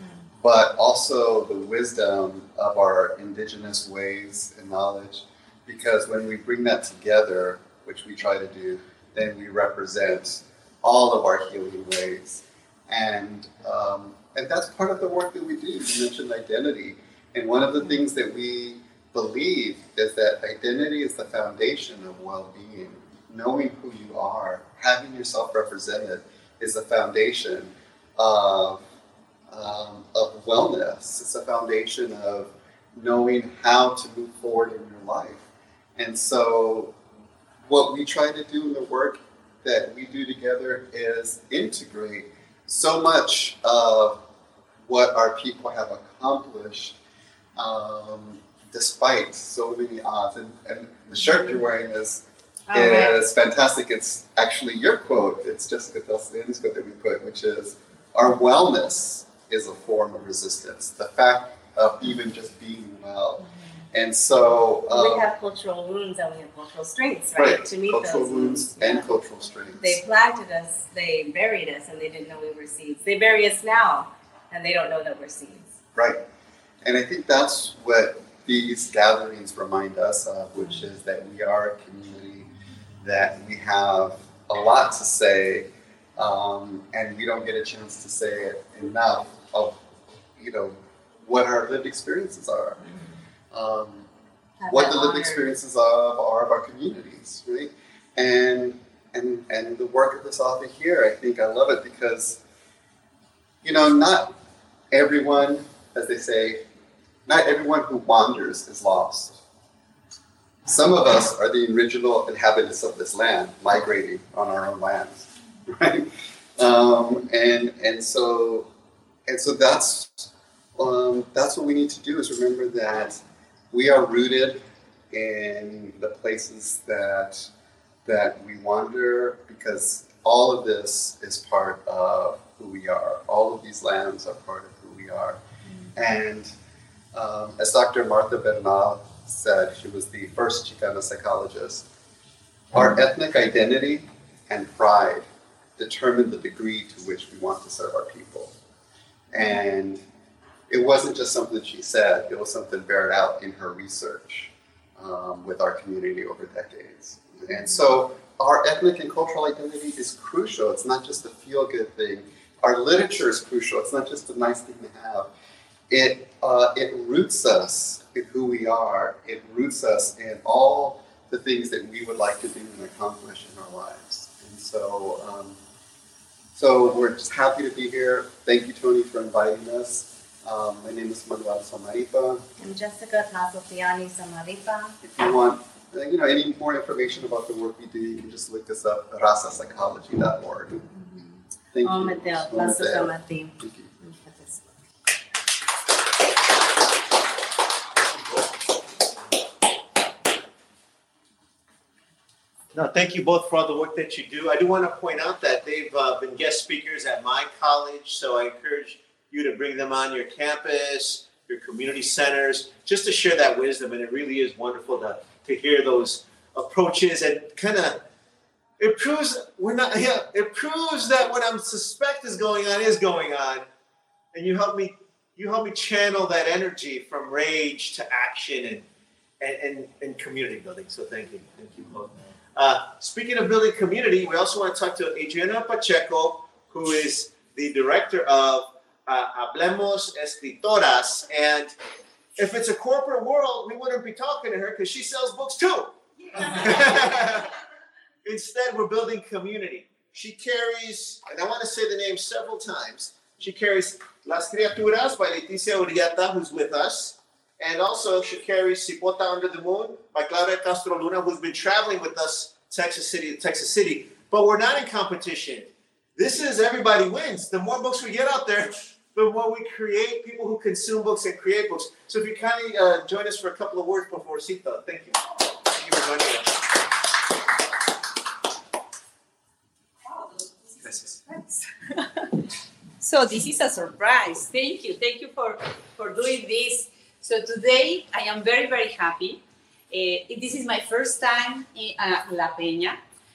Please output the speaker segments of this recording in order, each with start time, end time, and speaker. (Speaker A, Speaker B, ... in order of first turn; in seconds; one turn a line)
Speaker A: 0.4-28.8
Speaker A: 29.5-35.5
Speaker A: 36.0-37.0
Speaker A: 37.7-44.2
Speaker A: 44.9-47.0
Speaker A: 47.6-65.3
Speaker B: 52.7-53.2
Speaker B: 64.9-69.1
Speaker A: 67.4-70.0
Speaker B: 69.8-75.7
Speaker A: 76.0-76.2
Speaker A: 76.8-82.5
Speaker A: 83.0-89.8
Speaker A: 90.4-92.9
Speaker A: 93.5-94.1
Speaker B: 94.6-95.5
Speaker A: 94.7-102.4
Speaker A: 103.6-104.3
Speaker A: 104.9-106.6
Speaker A: 107.3-109.4
Speaker A: 110.7-118.7
Speaker A: 119.3-127.5
Speaker A: 128.1-135.4
Speaker A: 135.9-136.5
Speaker A: 137.1-141.9
Speaker A: 142.7-148.5
Speaker A: 149.3-150.0
Speaker A: 150.7-165.3
Speaker A: 165.9-175.6
Speaker A: 176.6-182.4
Speaker B: 182.6-185.0
Speaker A: 185.0-190.9
Speaker B: 191.0-194.7
Speaker A: 191.7-193.9
Speaker C: 202.7-218.0
Speaker C: 218.8-223.7
Speaker C: 224.3-228.8
Speaker C: 229.4-241.7
Speaker C: 242.4-247.6
Speaker C: 248.2-276.6
Speaker D: 280.7-282.4
Speaker D: 283.0-293.0